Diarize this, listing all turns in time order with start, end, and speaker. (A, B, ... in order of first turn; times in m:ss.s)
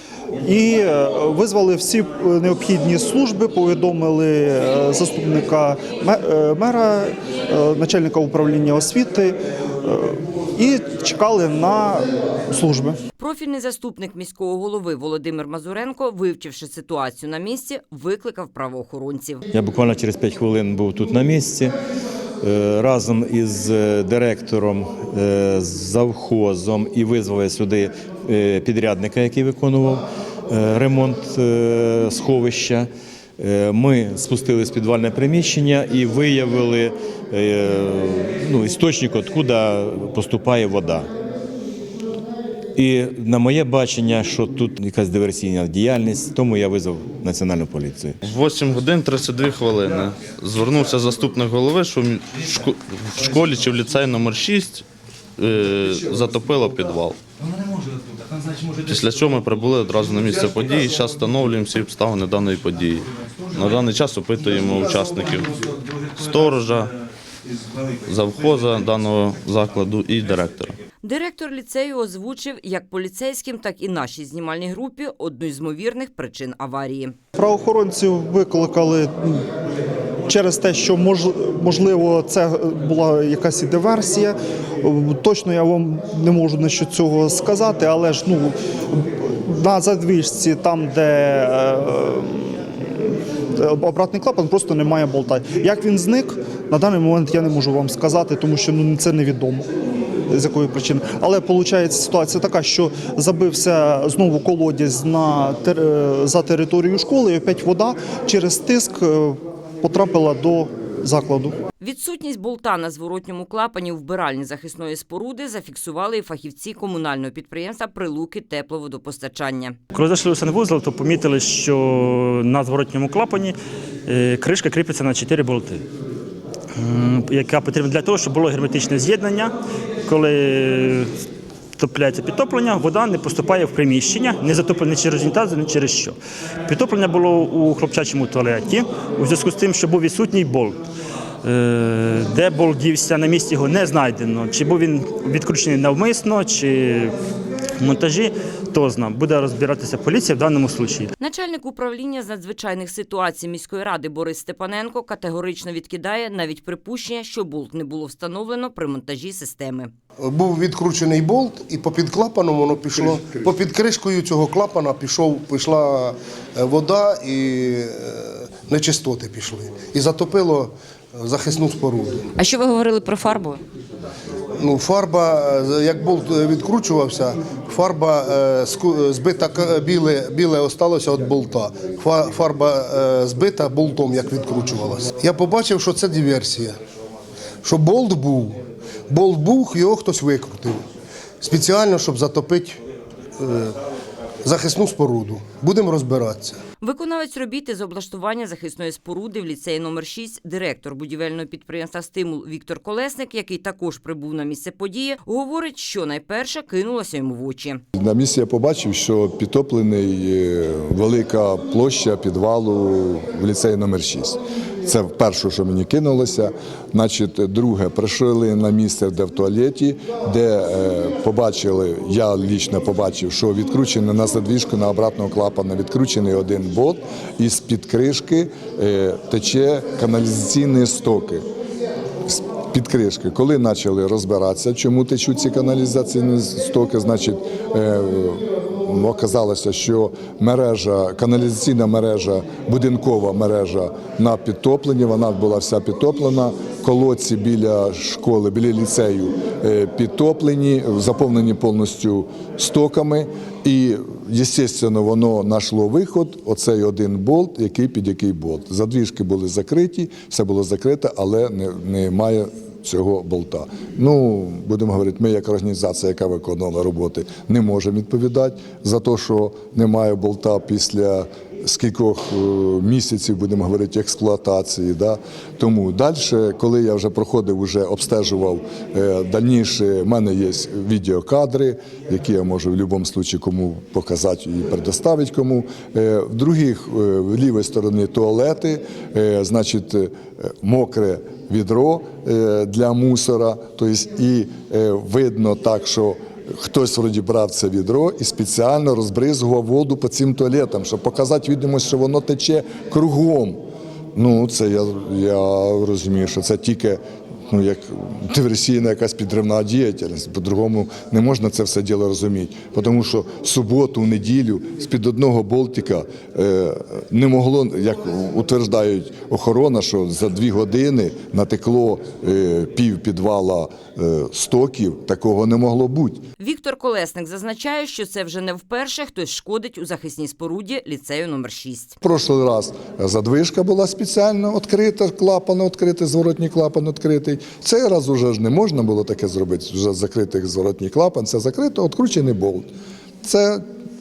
0:00.4-0:13.0 A
0:13.2-0:19.4 B
0:19.5-0:21.8 C
0:22.4-0:41.1 C
0:42.8-0:48.2 C
0:48.2-0:54.8 D
0:55.4-0:57.2 D
0:58.9-1:05.6 D
1:06.1-1:06.9 D
1:08.1-1:10.8 D
1:11.0-1:17.2 B
1:17.4-1:19.4 A
1:20.3-1:39.7 A
1:40.3-1:51.6 A
1:51.8-1:59.8 B
1:59.9-2:05.8 E
2:06.8-2:09.5 E
2:10.1-2:11.1 E
2:11.8-2:20.8 E
2:21.4-2:27.1 E
2:27.8-2:31.1 E
2:31.2-2:39.9 B
2:40.2-2:52.3 F
2:52.4-2:53.6 B
2:54.6-3:06.8 F
3:07.6-3:08.6 F
3:09.1-3:10.8 F
3:11.4-3:12.8 F
3:13.4-3:13.8 F
3:14.4-3:16.6 F
3:16.8-3:27.8 B
3:28.0-3:51.4 G
3:52.3-5:03.6 G
5:04.2-5:26.2 G
5:26.4-5:32.0 B
5:32.0-5:42.7 G
5:43.2-5:43.6 G